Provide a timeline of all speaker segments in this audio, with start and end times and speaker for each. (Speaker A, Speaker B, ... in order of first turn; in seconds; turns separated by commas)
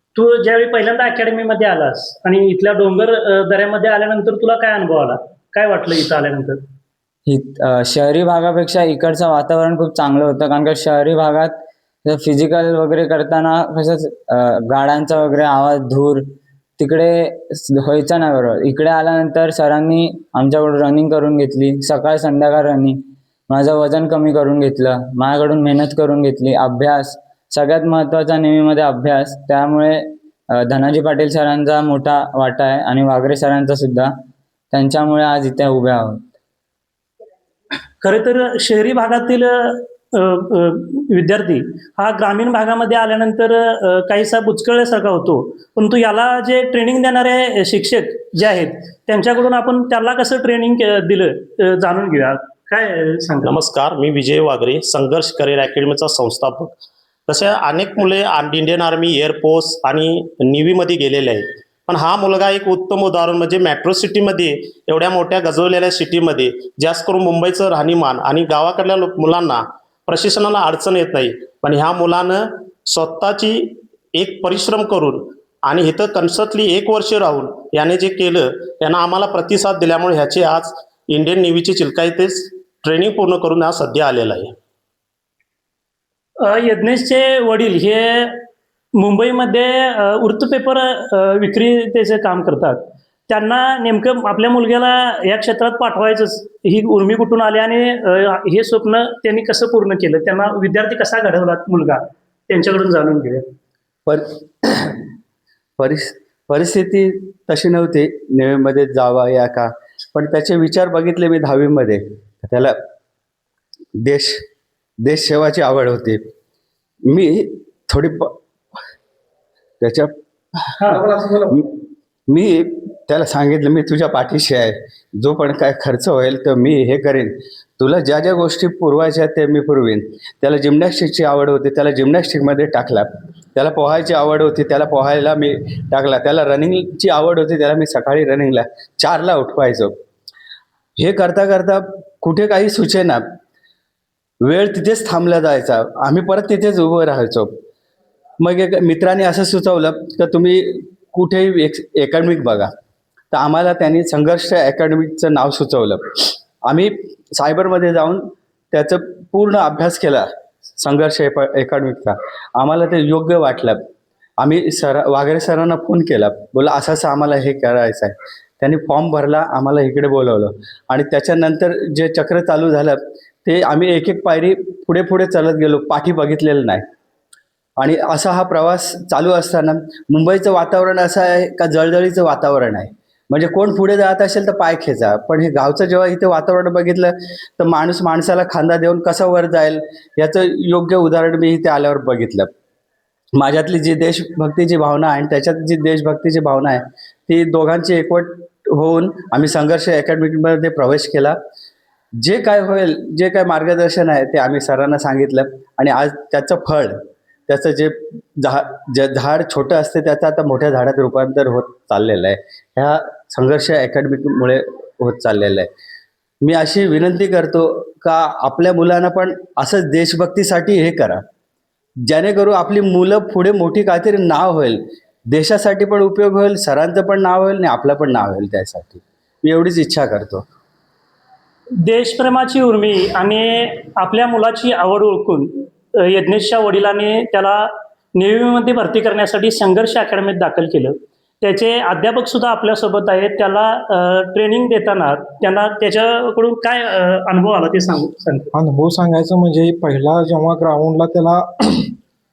Speaker A: 0.1-6.6, Speaker B: 7.3-16.2, Speaker B: 16.8-34.1, Speaker B: 34.7-36.2, Speaker A: 38.0-53.5, Speaker C: 53.4-56.8, Speaker C: 57.3-84.5, Speaker A: 86.4-88.4, Speaker A: 89.0-103.5, Speaker D: 104.0-105.0, Speaker D: 105.8-112.8, Speaker D: 114.0-114.4, Speaker D: 115.0-116.2, Speaker D: 117.1-118.3, Speaker D: 119.8-120.2, Speaker A: 120.8-121.0, Speaker D: 122.3-140.0, Speaker D: 141.0-143.2, Speaker D: 144.4-147.5, Speaker D: 148.4-152.7, Speaker D: 153.3-160.3, Speaker D: 160.8-163.8, Speaker D: 164.4-176.8, Speaker D: 177.8-192.5, Speaker D: 193.3-201.4, Speaker D: 202.2-215.7, Speaker D: 216.4-221.2, Speaker D: 222.1-224.8, Speaker D: 225.3-230.5, Speaker A: 231.8-248.5, Speaker E: 248.5-251.9